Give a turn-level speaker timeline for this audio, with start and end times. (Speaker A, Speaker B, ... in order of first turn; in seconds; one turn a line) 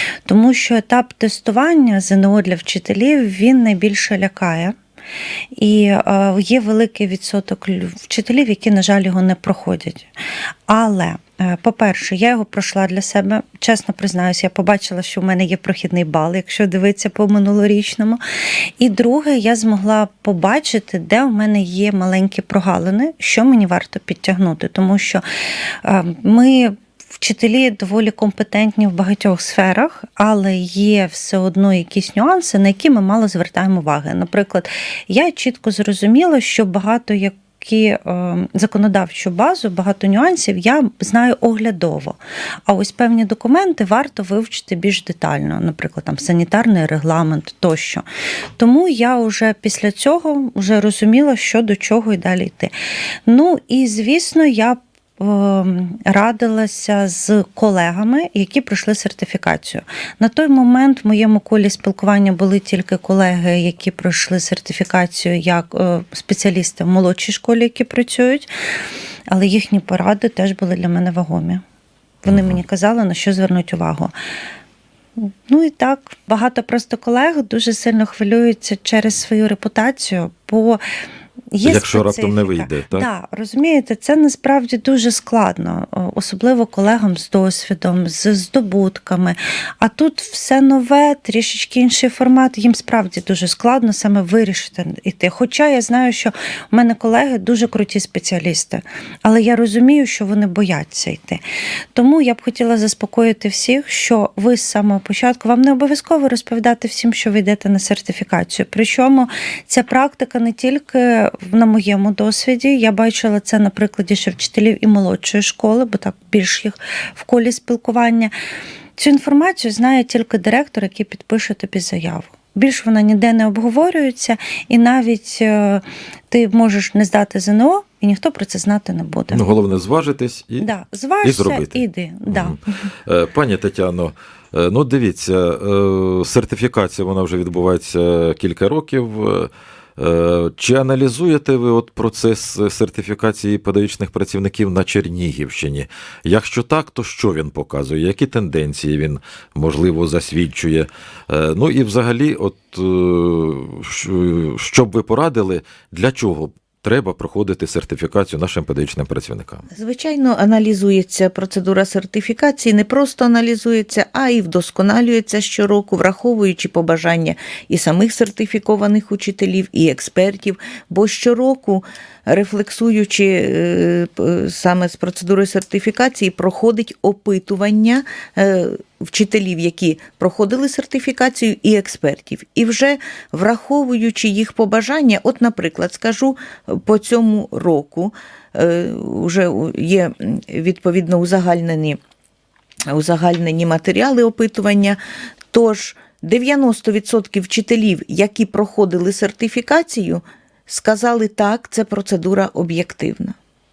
Speaker A: 0.3-4.8
Speaker A: 5.6-10.1
Speaker A: 10.7-18.2
Speaker A: 18.8-25.2
Speaker A: 25.8-48.0
Speaker A: 48.6-52.7
Speaker A: 53.3-68.5
Speaker A: 69.3-71.6
Speaker A: 72.2-74.1
Speaker B: 72.3-72.6
Speaker A: 75.2-80.8
Speaker A: 81.5-101.4
Speaker B: 81.6-83.1
Speaker A: 101.9-118.3
Speaker A: 119.0-129.5
Speaker B: 129.3-130.7
Speaker A: 130.6-132.6
Speaker B: 131.2-159.7
Speaker C: 159.8-192.0
Speaker C: 192.9-195.0
Speaker C: 195.5-203.4